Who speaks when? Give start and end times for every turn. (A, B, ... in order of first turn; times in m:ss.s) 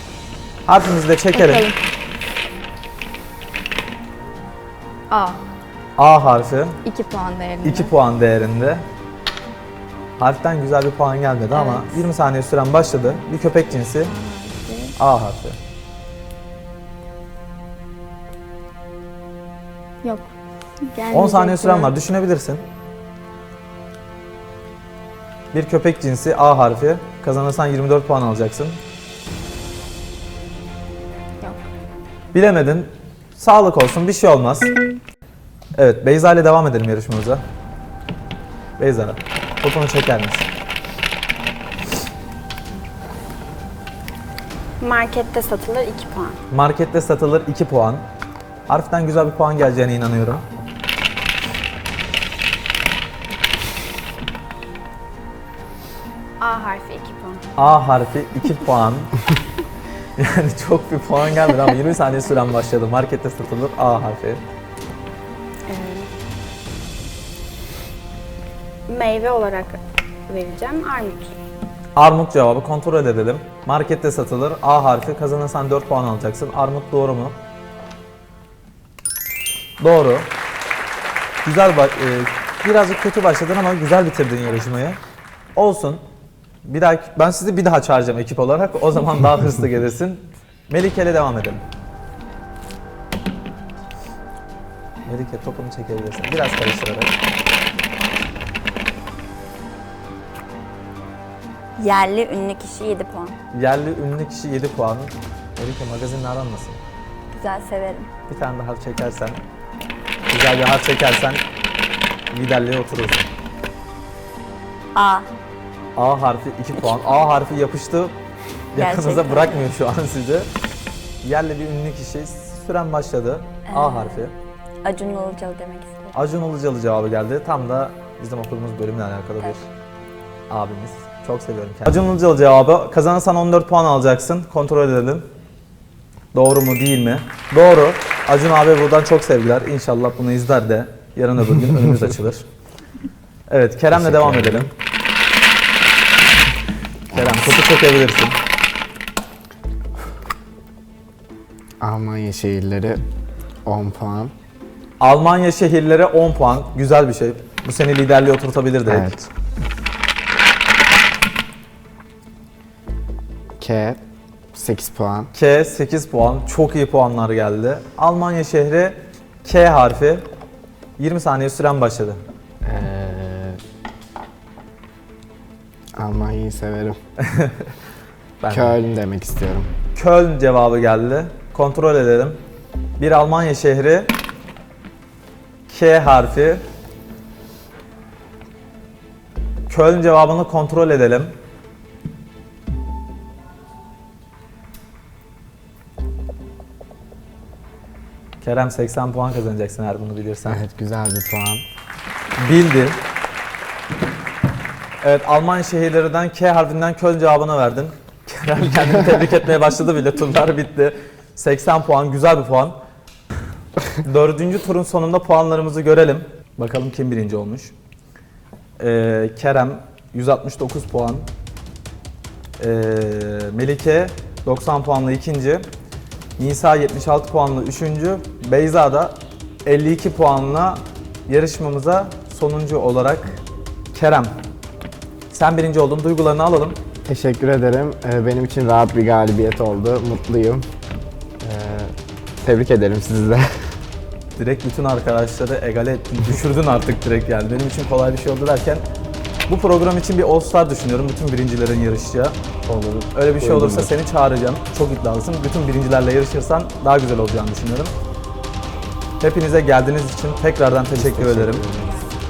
0:00.6-0:01.7 A
0:01.3-0:01.8 B
0:05.1-0:05.4 B
0:06.0-0:06.8 A
0:06.8-0:07.9 B
0:07.6-0:08.8 A
0:10.2-0:14.1 A
0:11.6-0:11.9 B
0:14.0-0:15.0 B
0:15.0-0:15.6 A
0:20.0-0:20.3 B
0:20.9-0:21.9 B
0:21.1-0:22.6 A
0:25.5-0:28.8 A
0:32.3-0:34.7 A
0:35.8-0:37.4 A
0:38.8-0:40.5 A
0:44.8-0:46.4 C
0:46.5-0:48.0 A
0:48.7-0:50.4 A
0:56.4-0:57.4 C
0:57.6-0:59.1 A
1:00.2-1:04.4 A
1:05.7-1:06.1 C
1:08.9-1:11.3 C
1:12.0-1:17.4 A
1:19.8-1:20.3 A
1:21.4-1:25.0 A
1:25.6-1:26.0 A
1:26.6-1:31.6 A
1:35.0-1:37.1 A
1:41.8-1:43.4 D
1:43.5-1:46.8 A
1:47.3-1:48.1 D
1:48.3-1:49.4 A
1:50.3-1:51.4 A
1:52.3-1:53.3 A
1:54.9-1:55.3 D
1:56.0-1:58.1 A
1:58.7-2:00.5 A
1:58.8-1:59.7 D
2:01.2-2:04.3 A
2:03.7-2:04.3 D
2:04.8-2:06.2 D
2:06.1-2:09.7 A
2:10.5-2:15.3 A
2:16.3-2:22.4 A
2:23.5-2:24.7 A
2:23.9-2:24.7 E
2:27.1-2:28.4 A
2:31.8-2:33.0 E
2:33.6-2:34.3 E
2:35.0-2:39.3 A
2:38.8-2:39.2 E
2:43.6-2:44.0 E
2:44.5-2:45.3 E
2:45.3-2:50.2 A
2:51.0-2:52.2 A
2:52.6-2:53.6 E
2:56.0-2:57.0 E
2:57.2-2:57.7 A
2:58.4-2:58.8 A
2:58.5-2:59.7 E
2:59.9-3:02.4 A
3:03.0-3:04.1 A
3:05.7-3:06.6 A
3:09.7-3:11.3 A
3:18.4-3:20.6 A
3:20.4-3:21.6 E
3:22.4-3:23.0 A
3:25.0-3:32.8 A
3:34.0-3:37.7 A
3:38.8-3:41.3 A
3:42.6-3:45.6 A
3:46.4-3:53.4 A
3:53.9-3:54.4 A
3:55.3-3:56.8 A
3:57.0-4:00.7 E
4:01.4-4:01.9 E
4:02.4-4:03.7 E
4:04.4-4:08.8 A
4:09.5-4:12.4 A
4:12.6-4:13.9 E
4:13.1-4:17.9 A
4:19.2-4:21.6 A
4:20.9-4:22.1 E